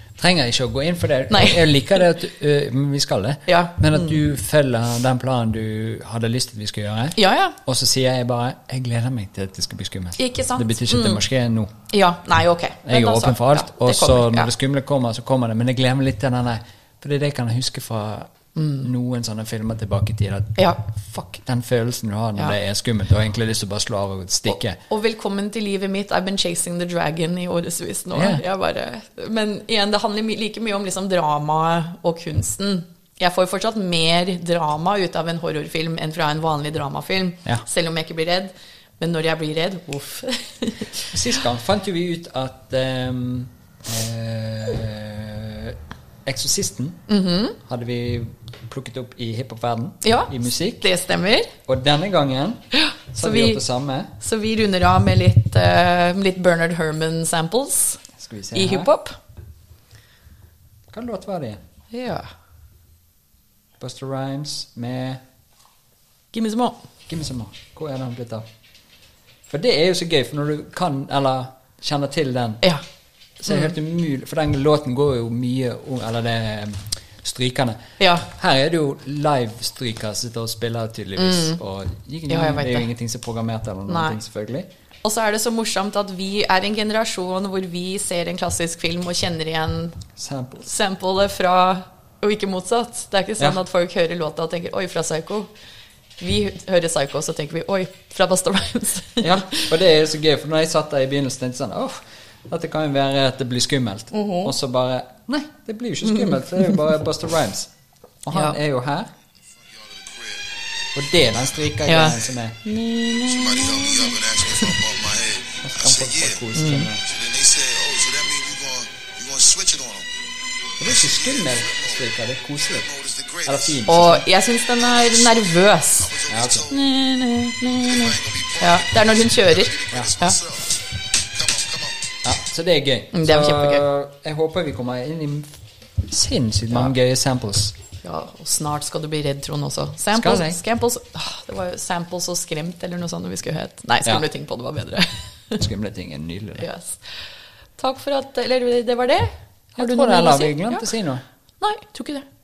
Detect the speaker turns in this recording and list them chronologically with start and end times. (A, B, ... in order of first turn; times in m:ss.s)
0:00.2-0:11.7 A
0:01.3-0:01.6 B
0:03.5-0:04.2 B
0:07.2-0:07.6 B
0:10.2-0:11.2 B
0:11.9-0:14.5 B
0:12.8-0:24.8 A
0:18.6-0:18.8 B
0:24.5-0:41.2 B
0:28.1-0:28.4 A
0:41.1-0:50.8 A
0:47.1-0:47.6 B
0:50.0-0:51.5 B
0:51.6-0:54.1 A
0:52.7-0:59.2 B
0:58.2-0:58.9 A
1:00.9-1:01.6 A
1:01.9-1:02.3 B
1:03.8-1:05.2 A
1:06.3-1:06.8 B
1:07.1-1:08.4 A
1:09.5-1:12.6 A
1:13.4-1:24.7 A
1:18.0-1:18.3 B
1:21.2-1:21.6 B
1:22.3-1:22.9 B
1:23.9-1:24.2 B
1:25.0-1:30.0 B
1:30.2-1:30.7 A
1:30.6-1:35.5 B
1:36.2-1:39.7 B
1:39.2-1:47.7 A
1:44.1-1:44.5 B
1:46.0-1:46.8 B
1:48.2-1:49.1 A
1:48.3-1:48.6 B
1:49.5-1:50.5 C
1:50.9-1:52.6 A
1:51.2-1:52.3 C
1:51.8-1:54.7 B
1:53.3-2:00.1 C
1:55.6-1:57.0 A
1:56.6-1:56.9 B
2:00.8-2:02.1 C
2:00.8-2:02.8 A
2:02.6-2:03.9 C
2:03.4-2:04.2 A
2:03.9-2:06.1 B
2:04.4-2:06.8 C
2:06.3-2:06.7 A
2:06.7-2:10.4 B
2:07.7-2:12.1 C
2:12.2-2:17.7 A
2:13.1-2:13.8 B
2:18.0-2:25.6 B
2:20.1-2:20.6 A
2:25.6-2:26.7 A
2:26.6-2:27.1 B
2:27.8-2:30.9 B
2:29.8-2:31.2 A
2:31.6-2:32.2 B